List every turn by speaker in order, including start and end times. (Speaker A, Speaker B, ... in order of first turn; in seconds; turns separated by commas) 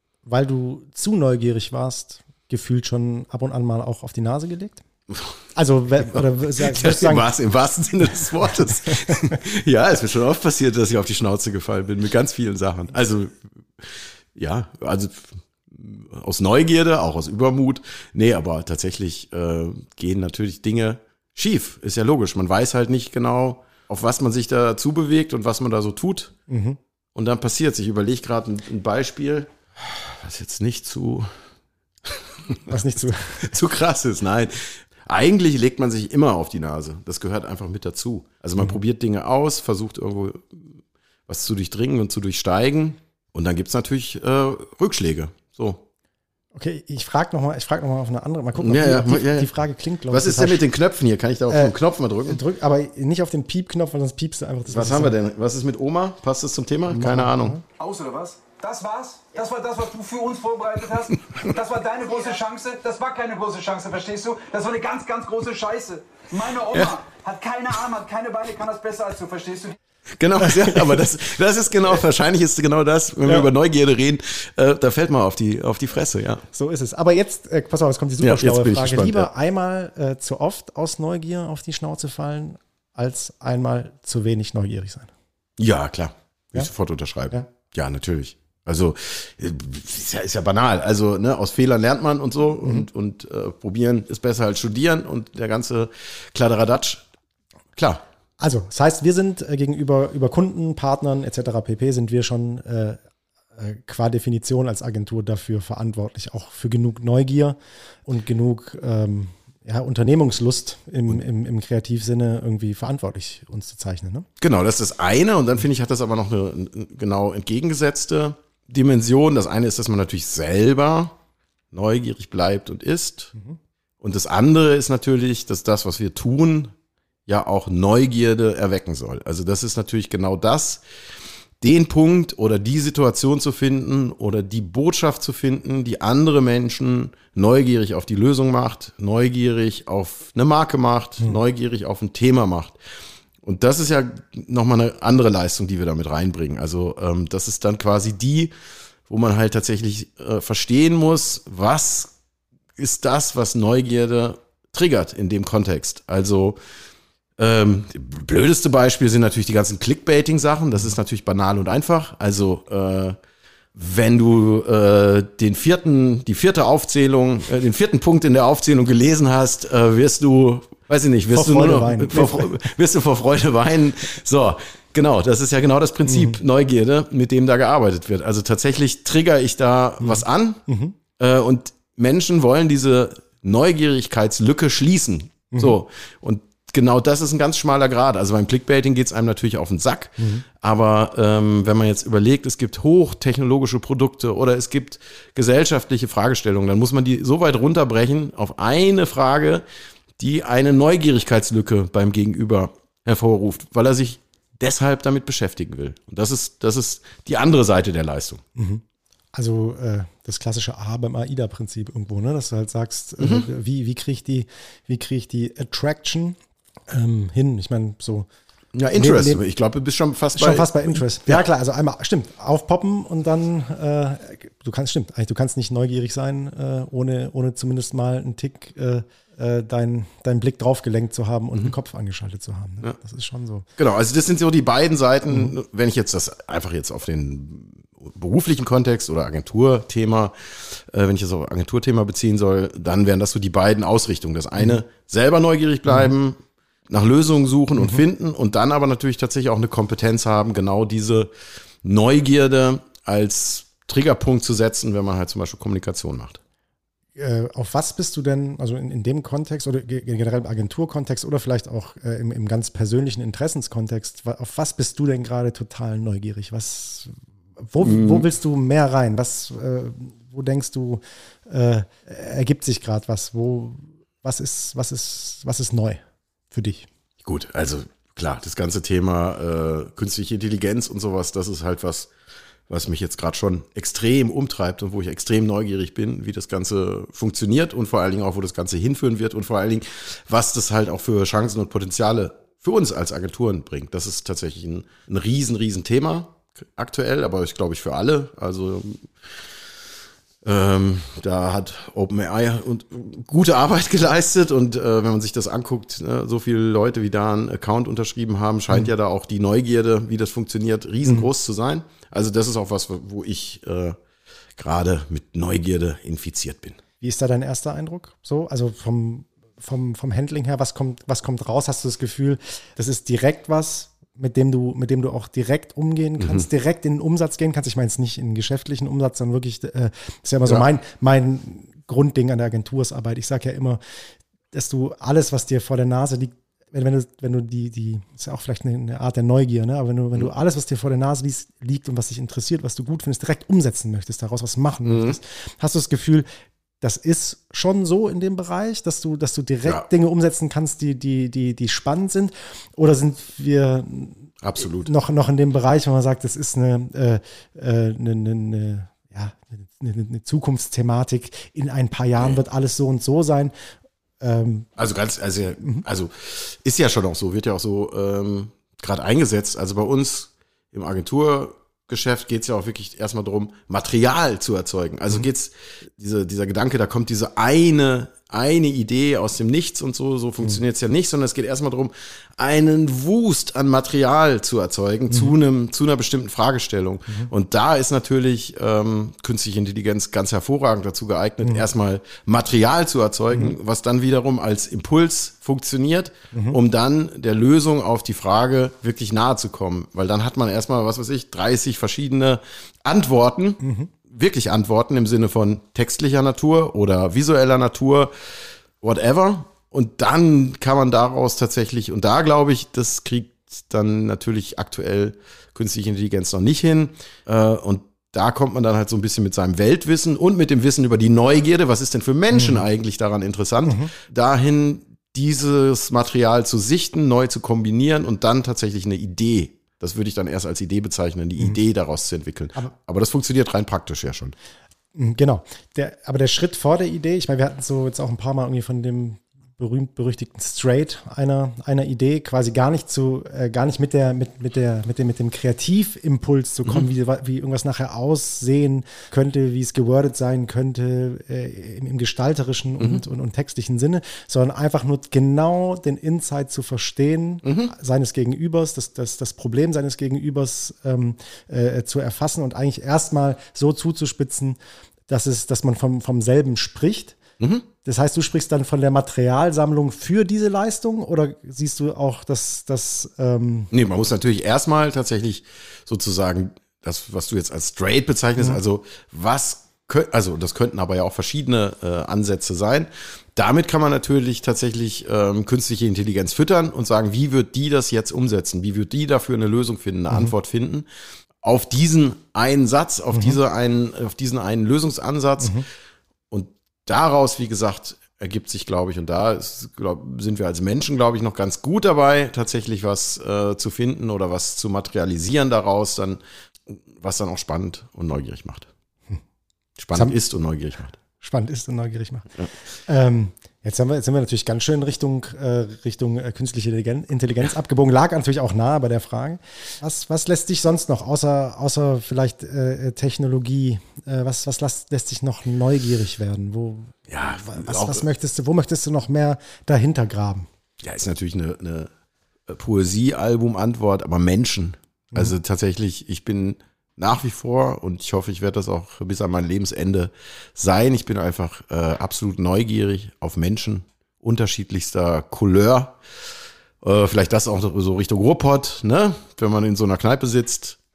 Speaker A: 0.2-4.8, Speaker A: 5.5-7.3, Speaker B: 6.1-26.3, Speaker A: 8.6-9.2, Speaker A: 26.5-26.8, Speaker B: 27.1-31.4, Speaker B: 32.1-32.7, Speaker A: 32.7-33.5, Speaker B: 33.4-40.8, Speaker B: 41.3-45.8, Speaker A: 46.5-50.6, Speaker B: 48.6-49.5, Speaker B: 50.1-52.4, Speaker A: 51.5-51.8, Speaker A: 52.3-55.1, Speaker B: 54.7-57.6, Speaker A: 56.9-57.6, Speaker C: 57.8-69.8, Speaker B: 70.2-76.4, Speaker A: 70.4-70.9, Speaker A: 76.5-85.1, Speaker B: 78.2-79.3, Speaker B: 85.6-97.0, Speaker B: 97.8-98.0, Speaker A: 98.4-103.0, Speaker A: 103.6-114.3, Speaker B: 114.4-121.2, Speaker B: 121.7-123.3, Speaker B: 124.0-126.7, Speaker B: 127.3-130.8, Speaker B: 131.6-142.8, Speaker B: 143.4-148.5, Speaker B: 149.1-152.1, Speaker B: 152.8-156.6, Speaker B: 157.4-163.2, Speaker B: 163.7-180.6, Speaker A: 171.3-172.7, Speaker A: 176.1-176.4, Speaker A: 180.0-180.9, Speaker B: 181.2-199.6, Speaker A: 185.5-185.8, Speaker A: 190.2-190.4, Speaker B: 200.2-208.4, Speaker A: 208.6-208.8, Speaker A: 209.3-216.4, Speaker B: 213.2-213.5, Speaker A: 216.9-218.3, Speaker B: 218.8-221.4, Speaker A: 218.9-219.4, Speaker A: 220.3-233.7, Speaker B: 233.8-251.3, Speaker B: 251.8-256.4, Speaker A: 257.2-276.0, Speaker B: 267.8-268.3, Speaker A: 276.5-276.9, Speaker B: 277.2-282.1, Speaker B: 282.7-299.1, Speaker B: 300.4-314.0, Speaker B: 314.6-316.8, Speaker A: 317.0-333.8, Speaker B: 326.2-326.5, Speaker A: 334.5-346.3, Speaker B: 344.9-345.2, Speaker A: 346.8-354.3, Speaker B: 354.4-354.9, Speaker A: 354.9-363.5, Speaker A: 364.2-364.7, Speaker B: 364.8-408.1, Speaker A: 396.3-396.6, Speaker A: 403.6-403.9, Speaker B: 408.8-434.4, Speaker A: 423.7-423.9, Speaker A: 434.9-464.6, Speaker B: 457.4-457.7, Speaker A: 465.1-467.2, Speaker B: 467.4-467.7, Speaker A: 467.8-473.7, Speaker B: 473.7-490.9, Speaker B: 491.4-495.6, Speaker B: 496.3-508.7, Speaker B: 509.8-511.0, Speaker A: 511.2-512.3, Speaker A: 512.9-530.5, Speaker B: 527.1-528.0, Speaker B: 530.8-531.9, Speaker B: 532.5-546.0, Speaker B: 546.8-550.8